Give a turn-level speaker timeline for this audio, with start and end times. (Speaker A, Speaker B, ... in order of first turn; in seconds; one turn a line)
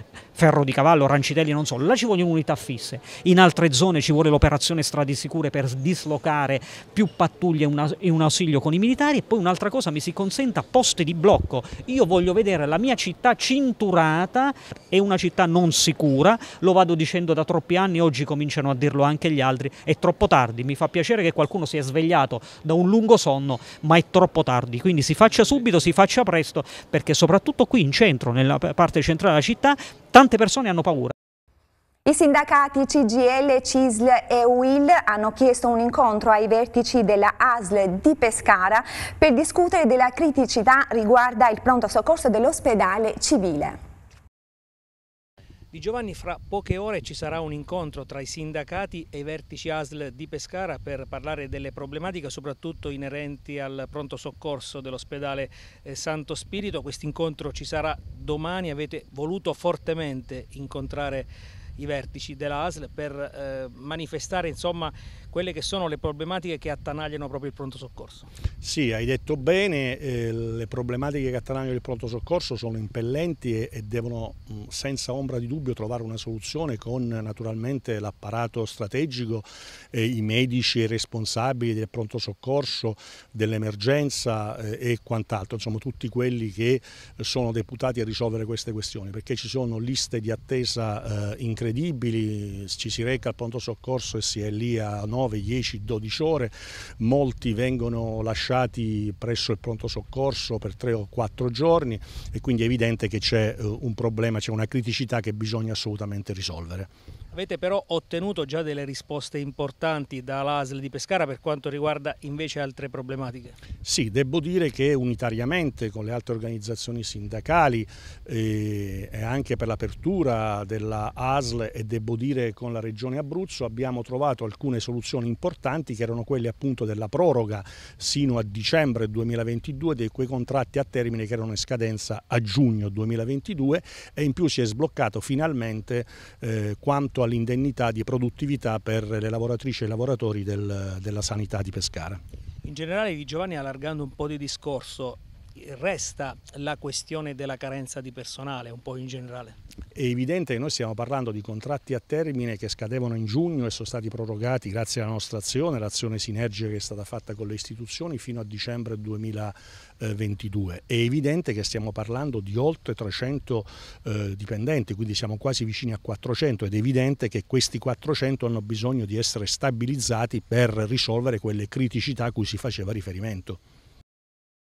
Speaker A: 0.3-31.1
Speaker B: 32.1-43.8
Speaker C: 45.7-68.3
Speaker D: 68.6-106.9
Speaker C: 107.3-113.6
Speaker D: 113.8-142.2
Speaker C: 142.7-149.6
Speaker D: 149.9-173.6